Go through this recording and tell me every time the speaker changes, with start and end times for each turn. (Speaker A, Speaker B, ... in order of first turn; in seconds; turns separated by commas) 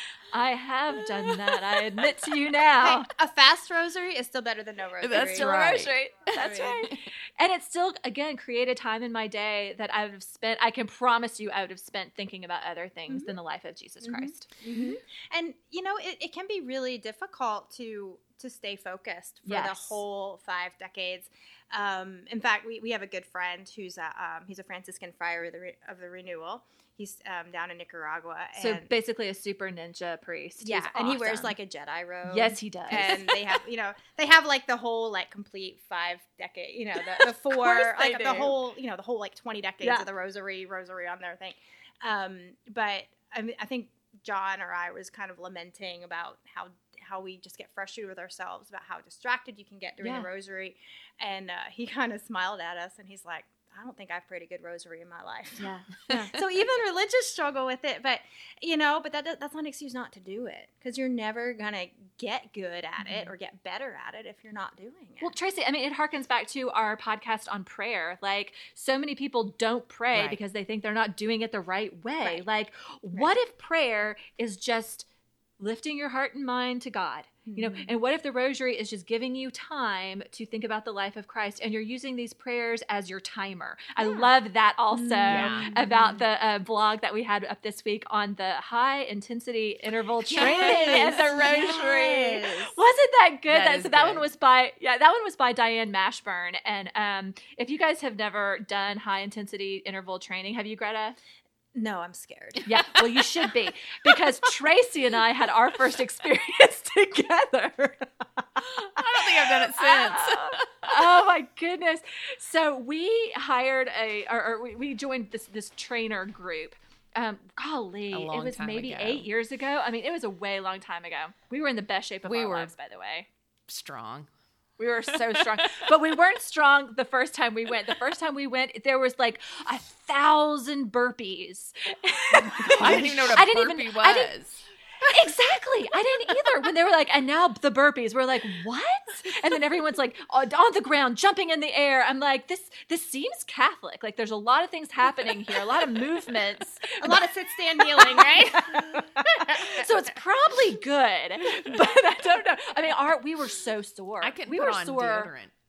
Speaker A: 0.3-3.1, Speaker B: 1.2-1.6, Speaker C: 2.8-6.9, Speaker B: 5.0-5.9, Speaker A: 5.1-14.5, Speaker C: 14.0-28.9, Speaker A: 19.5-20.0, Speaker A: 28.6-31.6, Speaker C: 30.6-65.3, Speaker A: 32.3-33.3, Speaker A: 37.1-38.6, Speaker A: 50.0-50.3, Speaker A: 55.6-56.0, Speaker A: 63.0-63.3, Speaker A: 65.2-75.1, Speaker B: 70.1-70.4, Speaker A: 75.6-92.0, Speaker C: 77.5-77.9, Speaker C: 84.0-84.3, Speaker C: 84.9-86.2, Speaker B: 85.3-85.7, Speaker B: 90.2-92.6, Speaker C: 90.4-92.7, Speaker A: 92.7-101.2, Speaker B: 93.5-94.3, Speaker C: 101.7-103.0, Speaker A: 102.7-109.0, Speaker B: 108.7-111.1, Speaker A: 109.7-123.3, Speaker B: 118.1-119.3, Speaker B: 122.2-122.7, Speaker B: 123.7-124.3, Speaker A: 124.8-134.3, Speaker B: 125.1-125.9, Speaker B: 132.8-134.6, Speaker A: 135.0-147.3, Speaker C: 147.0-149.8, Speaker A: 147.9-155.3, Speaker B: 154.2-155.5